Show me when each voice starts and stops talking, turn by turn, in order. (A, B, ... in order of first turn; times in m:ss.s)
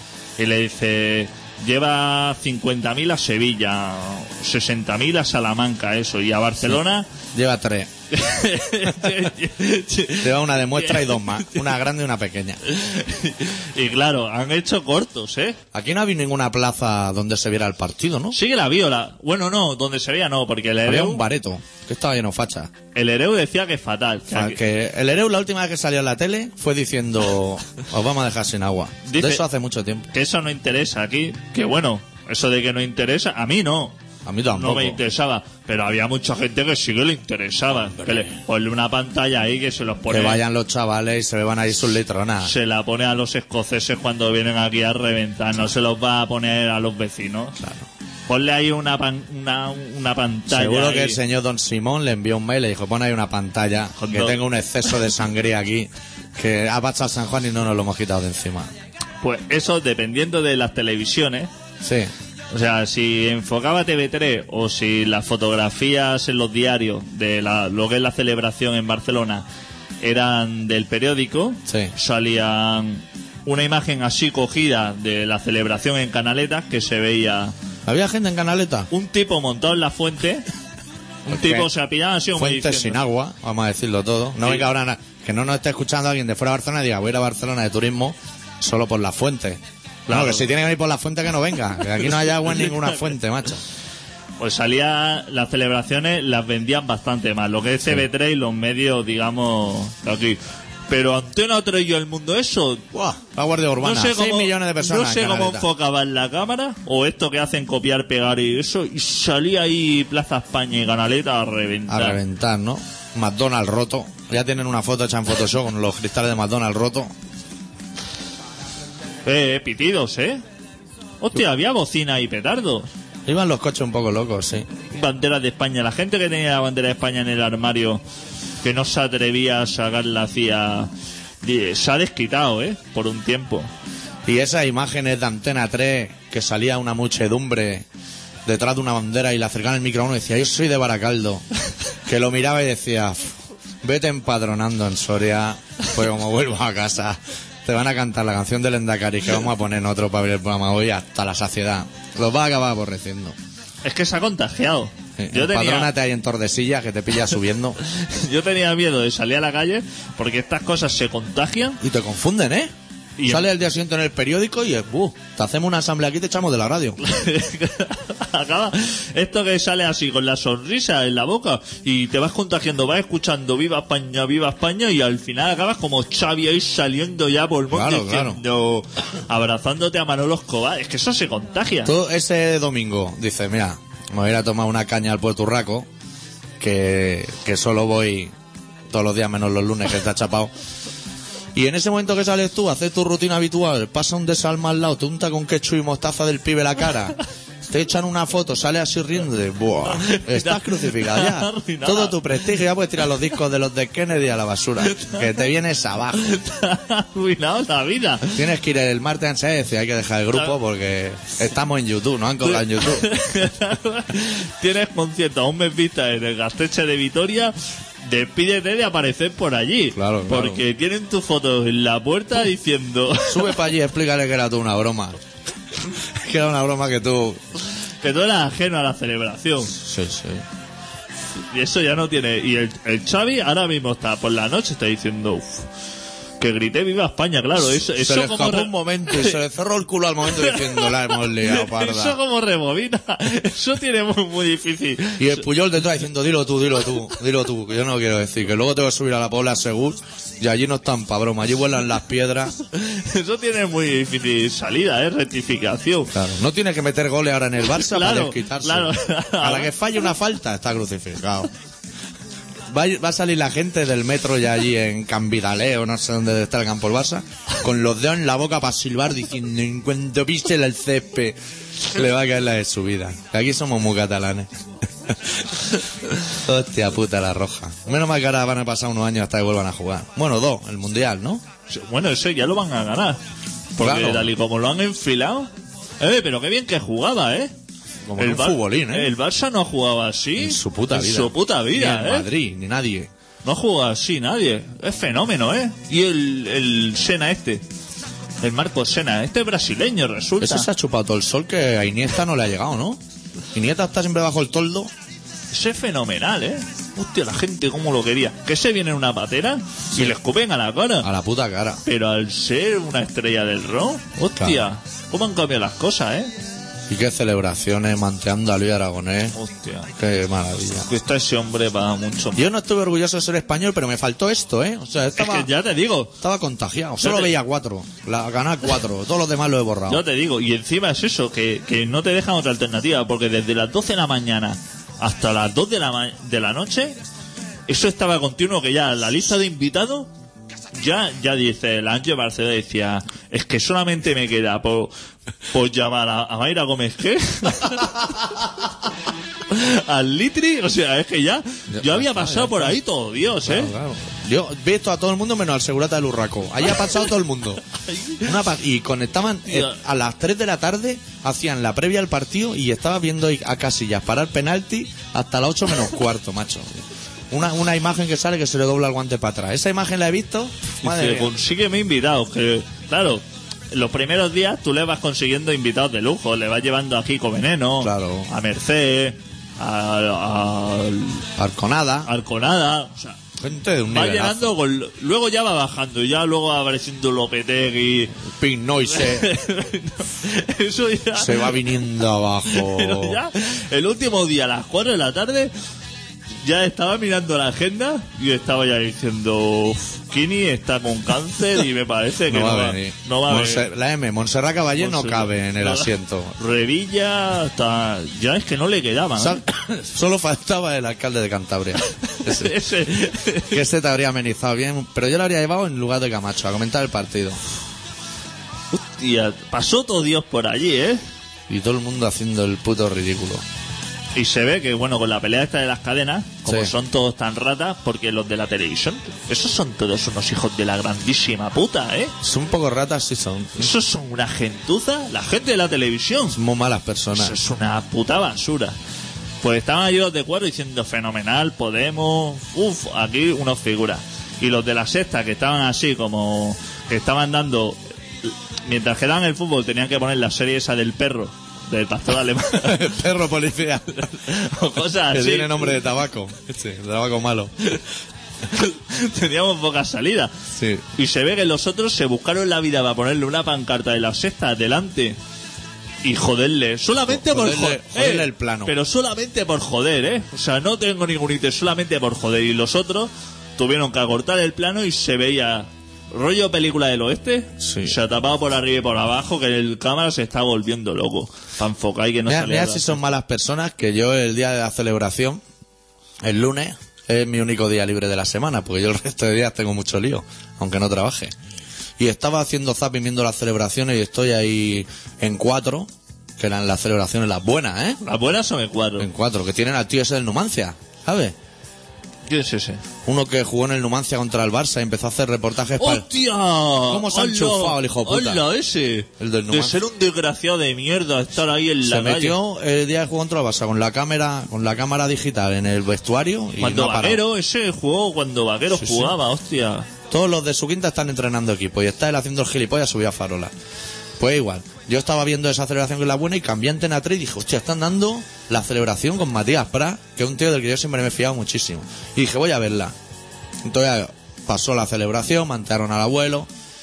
0:00.4-0:07.1 A
0:07.3-0:07.9 B
0:08.1-0:11.6 A
0:10.2-0:12.6 B
0:12.7-0:15.6 A
0:15.7-0:18.4 B
0:18.3-0:21.2 A
0:20.8-0:22.7 B
0:22.9-0:24.6 A
0:24.3-0:30.1 B
0:29.0-0:29.4 A
0:30.1-0:34.0 A
0:34.2-0:35.0 B
0:34.5-0:40.4 A
0:40.1-0:42.5 B
0:42.4-0:47.6 A
0:47.6-0:47.9 B
0:48.3-0:51.2 A
0:50.5-0:58.7 B
0:54.0-0:54.4 A
0:59.2-1:01.5 A
1:01.8-1:02.1 B
1:02.5-1:09.4 A
1:10.0-1:17.5 A
1:11.7-1:11.9 B
1:17.9-1:18.9 B
1:18.9-1:20.5 A
1:21.3-1:21.7 B
1:21.3-1:23.0 A
1:22.4-1:33.6 B
1:30.1-1:30.5 A
1:34.4-1:42.9 A
1:42.9-1:45.7 B
1:43.8-1:52.2 A
1:51.9-1:57.1 B
1:59.2-2:00.4 A
2:01.2-2:02.9 A
2:03.3-2:04.7 B
2:04.9-2:08.0 A
2:08.6-2:10.9 A
2:11.4-2:13.7 A
2:14.3-2:17.9 B
2:18.5-2:21.4 B
2:22.1-2:33.4 B
2:33.8-2:35.9 A
2:35.2-2:37.8 B
2:37.8-2:41.8 A
2:41.8-2:42.7 B
2:43.2-2:43.5 A
2:43.3-2:47.0 B
2:47.0-3:01.9 A
2:57.7-2:58.4 B
3:01.8-3:05.9 B
3:06.6-3:08.3 B
3:08.9-3:10.5 B
3:11.6-3:26.4 B
3:19.9-3:22.2 A
3:26.2-3:28.4 A
3:28.4-3:33.1 B
3:32.8-3:43.5 A
3:39.9-3:40.6 B
3:43.3-3:45.2 B
3:45.8-3:47.4 B
3:48.0-3:49.7 A
3:49.7-3:50.4 B
3:51.4-3:55.7 A
3:56.4-3:59.4 A
3:57.7-4:02.2 B
4:00.2-4:05.5 A
4:05.2-4:12.5 B
4:12.6-4:16.1 A
4:16.1-4:21.5 B
4:17.7-4:19.7 A
4:22.7-4:34.5 B
4:35.0-4:35.5 B
4:36.3-4:41.4 B
4:41.7-4:43.2 A
4:43.8-4:47.5 A
4:43.8-4:44.3 B
4:48.0-4:49.1 B
4:48.2-4:52.3 A
4:50.4-4:53.1 B
4:53.4-4:57.6 A
4:58.4-5:00.7 A
5:00.4-5:03.0 B
5:03.5-5:04.9 B
5:05.5-5:11.1 A
5:11.0-5:11.8 B
5:11.8-5:16.3 A
5:14.4-5:14.6 B
5:16.9-5:19.4 B
5:19.4-5:19.9 A
5:20.0-5:20.9 B
5:20.9-5:22.4 A
5:22.4-5:25.5 B
5:25.2-5:26.2 A
5:26.2-5:30.0 B
5:27.0-5:27.4 A
5:29.9-5:37.0 A
5:37.7-5:40.1 A
5:40.7-5:44.9 A
5:45.5-5:48.4 A
5:49.5-5:53.7 A
5:51.7-5:52.8 B
5:53.4-5:57.6 B
5:57.9-5:58.3 A
5:58.2-6:11.3 B
5:59.5-5:59.8 A
6:10.8-6:21.3 A
6:17.8-6:18.3 B
6:21.4-6:22.1 B
6:22.1-6:23.2 A
6:23.4-6:24.5 B
6:23.9-6:28.2 A
6:28.2-6:29.3 B
6:28.9-6:31.8 A
6:31.2-6:33.2 B
6:32.5-6:35.5 A
6:36.4-6:43.6 A
6:42.3-6:46.4 B
6:44.8-6:49.4 A
6:49.2-6:52.6 B
6:52.1-6:53.6 A
6:53.5-6:57.4 B
6:58.7-7:01.0 A
7:01.5-7:03.4 B
7:04.2-7:12.1 A
7:06.5-7:06.7 B
7:12.2-7:13.7 B
7:13.6-7:16.4 A
7:16.3-7:17.4 B
7:17.1-7:18.8 A
7:19.4-7:33.0 A
7:32.6-7:34.2 B
7:34.0-7:35.8 A
7:35.1-7:37.7 B
7:38.5-7:40.3 A
7:40.5-7:40.8 B
7:40.9-7:45.2 A
7:46.0-8:03.0 A
7:47.1-7:48.7 B
7:57.6-7:58.0 B
8:02.3-8:05.4 B
8:06.2-8:11.3 B
8:12.0-8:18.0 B
8:18.0-8:19.1 A
8:19.0-8:21.4 B
8:22.3-8:22.8 A
8:23.0-8:26.1 B
8:25.8-8:32.4 A
8:26.8-8:28.5 B
8:29.2-8:29.8 B
8:31.8-8:37.2 B
8:36.6-8:39.9 A
8:38.7-8:39.2 B
8:40.1-8:43.5 B
8:44.2-8:53.0 B
8:53.6-8:56.5 B